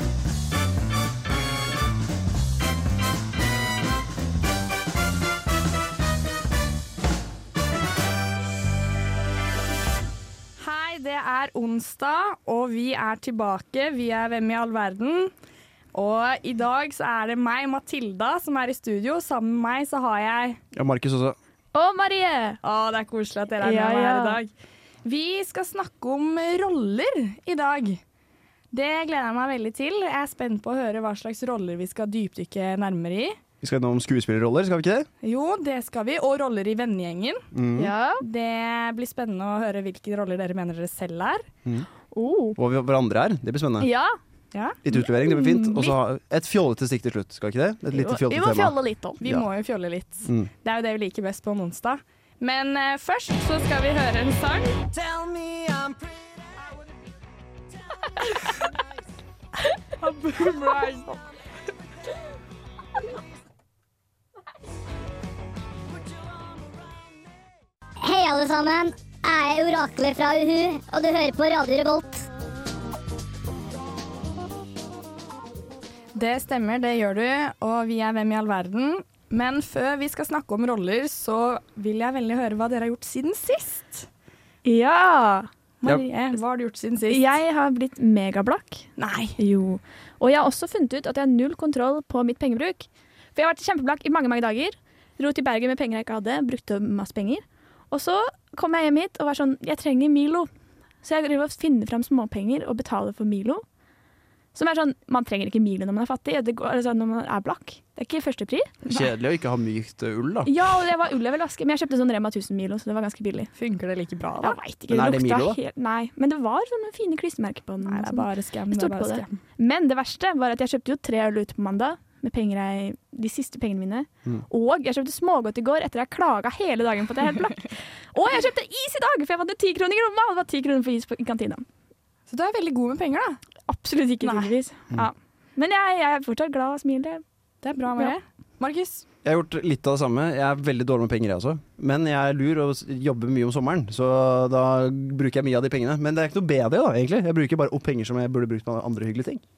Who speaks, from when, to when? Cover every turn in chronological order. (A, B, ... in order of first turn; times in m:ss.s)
0:10.6-0:15.3 A
0:15.9-0:20.6 A
0:20.7-0:21.4 B
0:21.7-0:22.6 C
0:22.6-0:24.5 A
0:23.6-0:24.4 C
0:25.0-0:28.0 A
0:28.7-0:33.4 A
0:33.6-0:35.1 B
0:35.2-0:37.4 A
0:37.5-0:37.9 B
0:37.8-0:38.2 C
0:38.2-0:41.5 A
0:42.1-0:42.6 C
0:42.6-0:43.9 B
0:43.8-0:44.2 C
0:44.5-0:44.8 A
0:44.8-0:49.4 B
0:44.9-0:46.0 C
0:47.9-0:49.2 C
0:49.2-0:54.8 A
0:50.2-0:50.5 B
0:55.0-0:55.9 B
1:00.0-1:01.2 A
1:08.0-1:12.3 D
1:16.1-1:24.1 A
1:24.6-1:25.5 C
1:25.8-1:27.4 A
1:27.1-1:40.5 C
1:29.0-1:29.4 A
1:41.0-1:43.6 C
1:44.5-1:49.0 C
1:48.9-1:50.5 B
1:50.4-1:53.5 C
1:53.5-1:54.6 A
1:54.4-2:11.6 C
1:54.9-1:55.6 B
1:57.8-1:59.4 A
2:12.3-2:13.4 A
2:13.6-2:17.2 C
2:14.2-2:14.5 A
2:17.6-2:19.0 A
2:19.2-2:29.4 B